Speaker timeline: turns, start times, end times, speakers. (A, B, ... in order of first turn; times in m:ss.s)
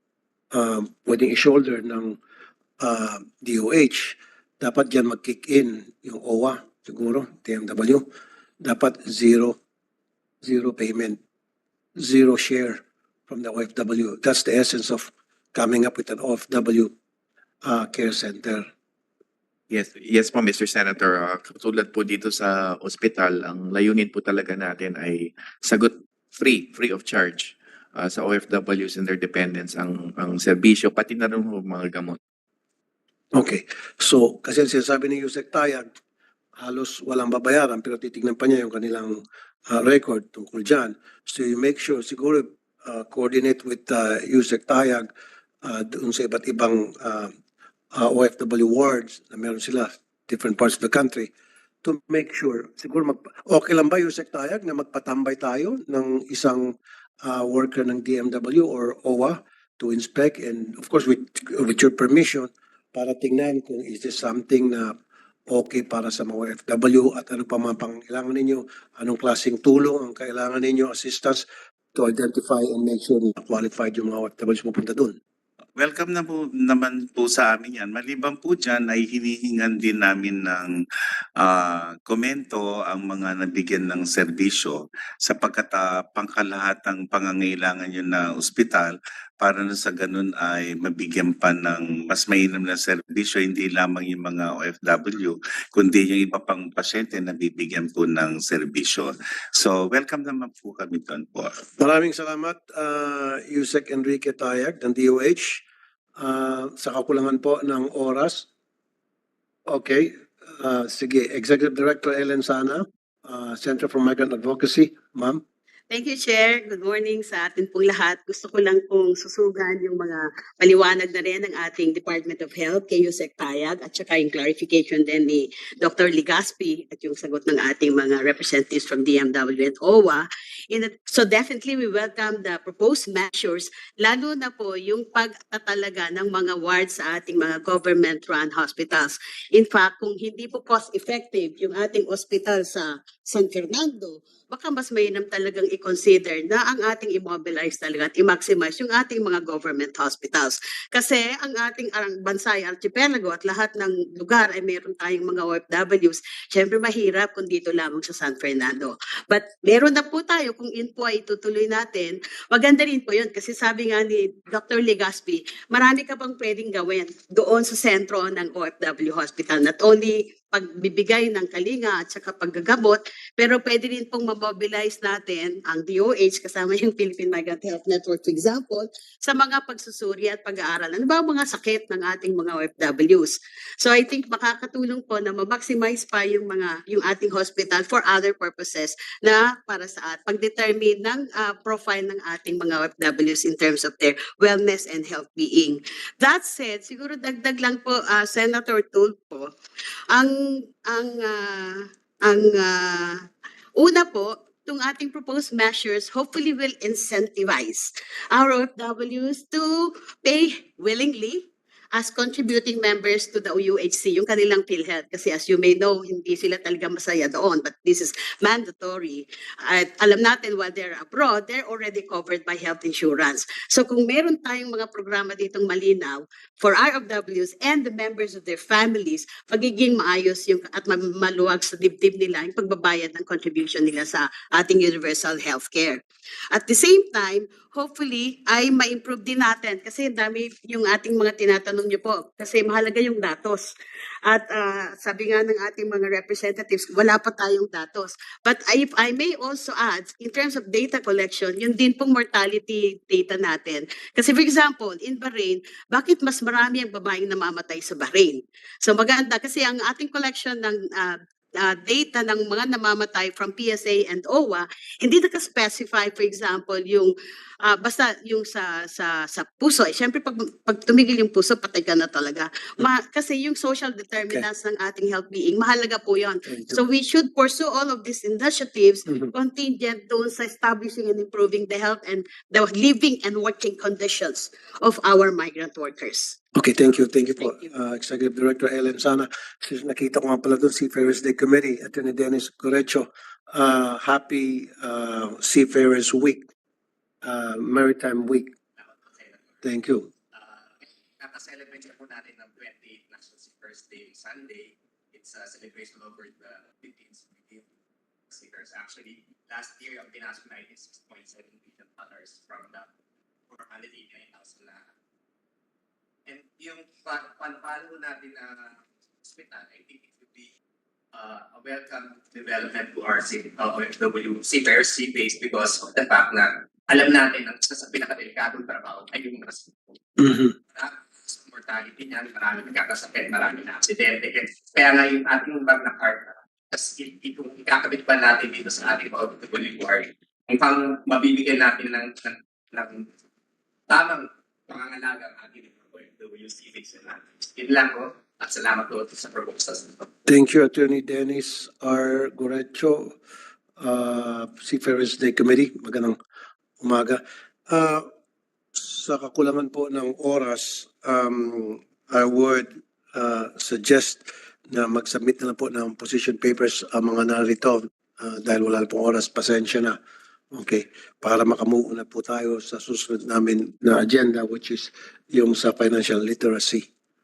0:00.5-0:02.2 A
0:02.8-0:08.0 A
0:08.6-0:09.6 A
0:10.4-0:11.2 A
0:12.0-0:16.9 A
0:17.6-0:18.7 A
0:19.7-0:32.2 B
0:33.3-0:35.9 A
0:36.6-0:45.1 A
0:45.6-0:47.3 A
0:48.0-0:51.3 A
0:51.8-1:05.0 A
1:05.5-1:15.2 A
1:15.8-1:20.8 C
1:21.4-1:41.7 C
1:41.8-1:45.6 A
1:46.2-1:48.5 A
1:49.7-1:55.4 A
1:55.9-3:19.5 D
3:20.1-3:23.2 D
3:23.8-4:03.7 D
4:04.3-4:46.4 D
4:36.5-4:36.8 A
4:46.6-4:56.5 A
4:47.4-4:47.7 D
4:57.2-4:58.5 A
4:58.8-4:59.6 E
4:59.6-5:00.1 A
5:00.3-5:07.7 E
5:08.3-5:12.9 E
5:13.5-5:14.9 E
5:16.3-5:20.5 E
5:21.1-5:29.7 E
5:30.2-5:30.6 A
5:30.7-5:43.1 E
5:43.9-5:50.1 E
5:50.3-5:53.2 A
5:53.8-5:56.2 A
5:56.8-5:58.1 A
5:58.8-6:10.0 A
6:10.5-6:16.9 A